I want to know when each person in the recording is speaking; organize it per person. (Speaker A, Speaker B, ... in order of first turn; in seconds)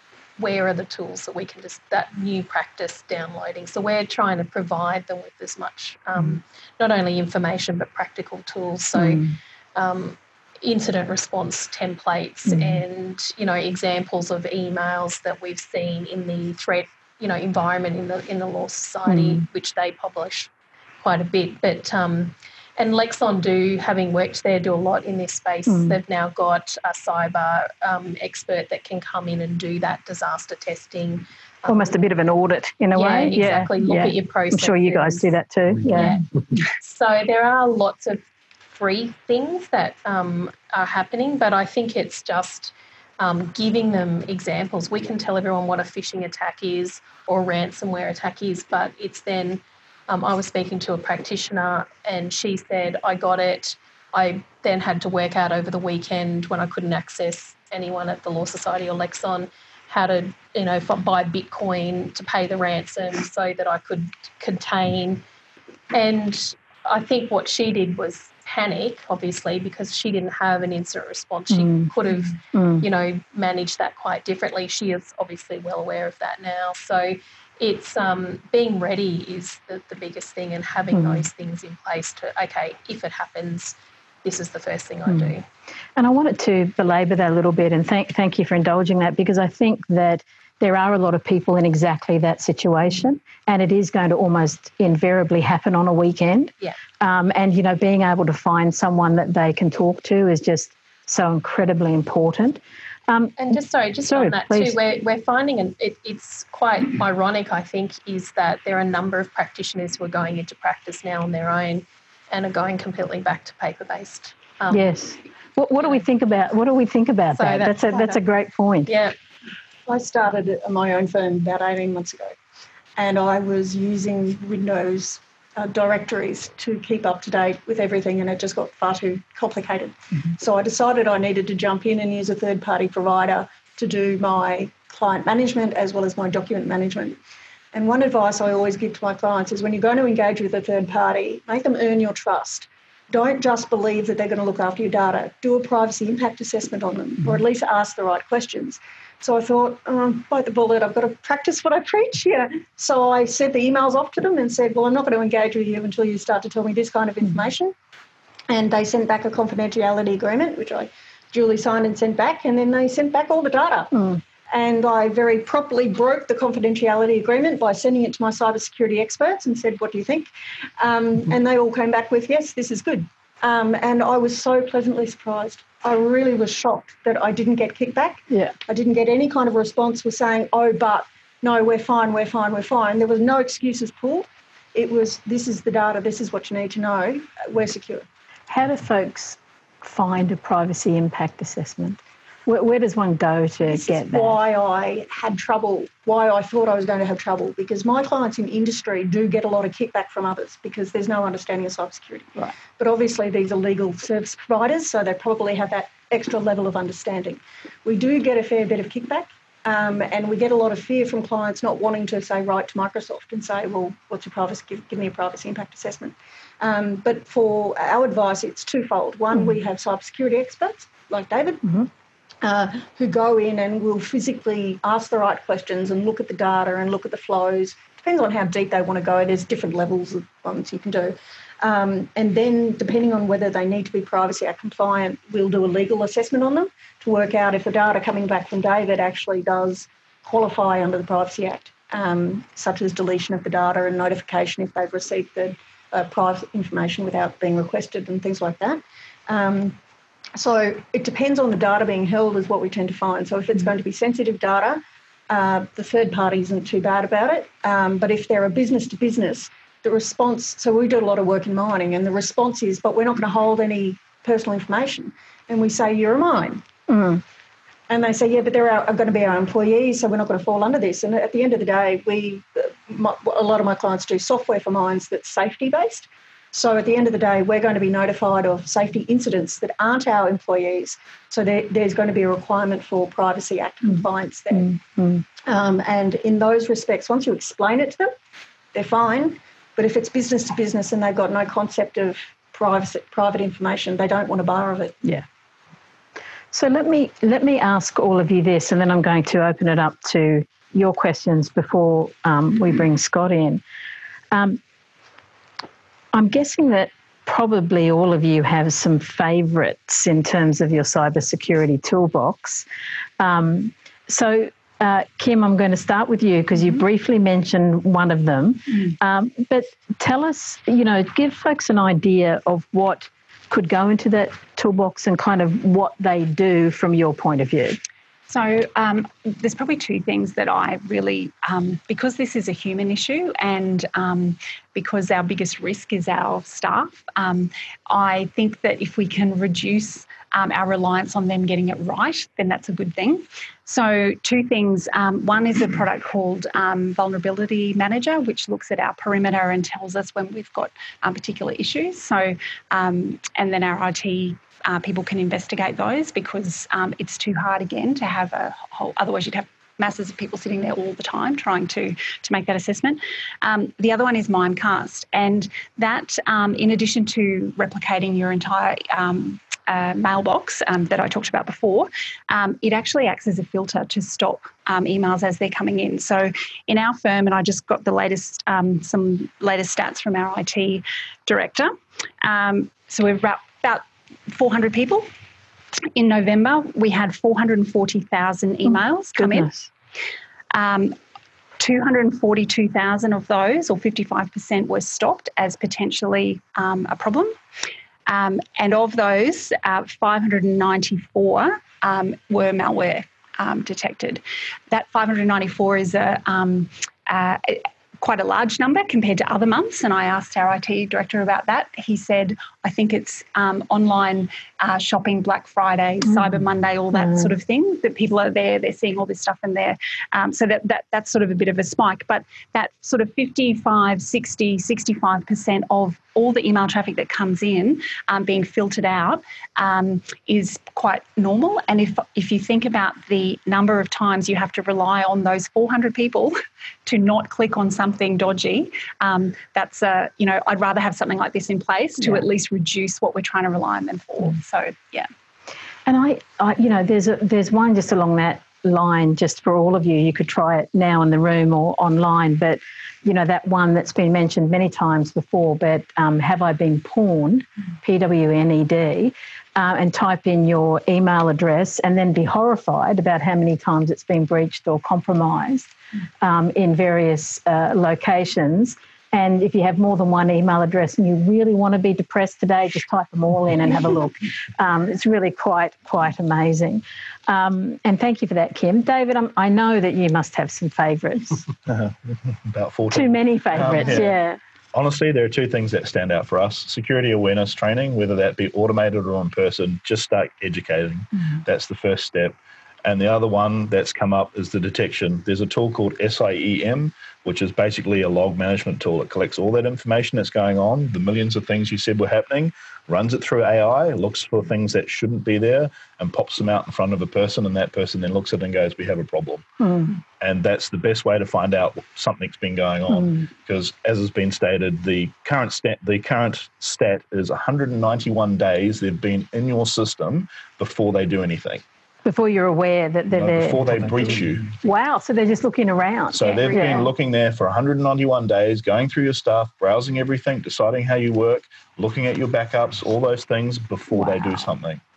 Speaker A: 0.4-20.5, 21.0-32.0, 32.9-38.2, 38.7-65.2, 65.9-85.4, 103.4-115.1, 117.3-118.2, 118.8-119.1
Speaker B: 8.9-9.3, 12.4-12.8, 19.1-19.4, 25.7-26.0, 31.6-36.2, 71.5-71.9, 72.5-72.9, 80.9-81.2, 86.0-103.4, 104.0-104.8, 114.7-118.9, 163.9-164.2, 178.3-178.5, 188.5-194.4, 266.9-267.2, 284.5-285.2, 296.5-303.6, 304.3-304.6, 306.1-312.6, 313.2-327.8, 388.7-389.7, 416.9-417.3, 445.9-481.4, 482.9-484.4, 509.6-509.9, 522.0-526.9, 533.9-534.4
Speaker C: 119.8-122.3, 123.0-137.2, 137.7-157.7, 158.5-188.1, 193.7-221.8, 222.4-249.8, 250.3-266.6, 267.9-284.7, 285.4-288.1, 288.7-295.0
Speaker D: 328.3-381.7, 382.2-385.1, 385.9-389.5, 390.5-390.9, 391.6-397.3, 398.1-445.1
Speaker E: 481.7-484.1, 484.7-509.4, 510.2-521.6, 523.1-524.5, 526.1-534.8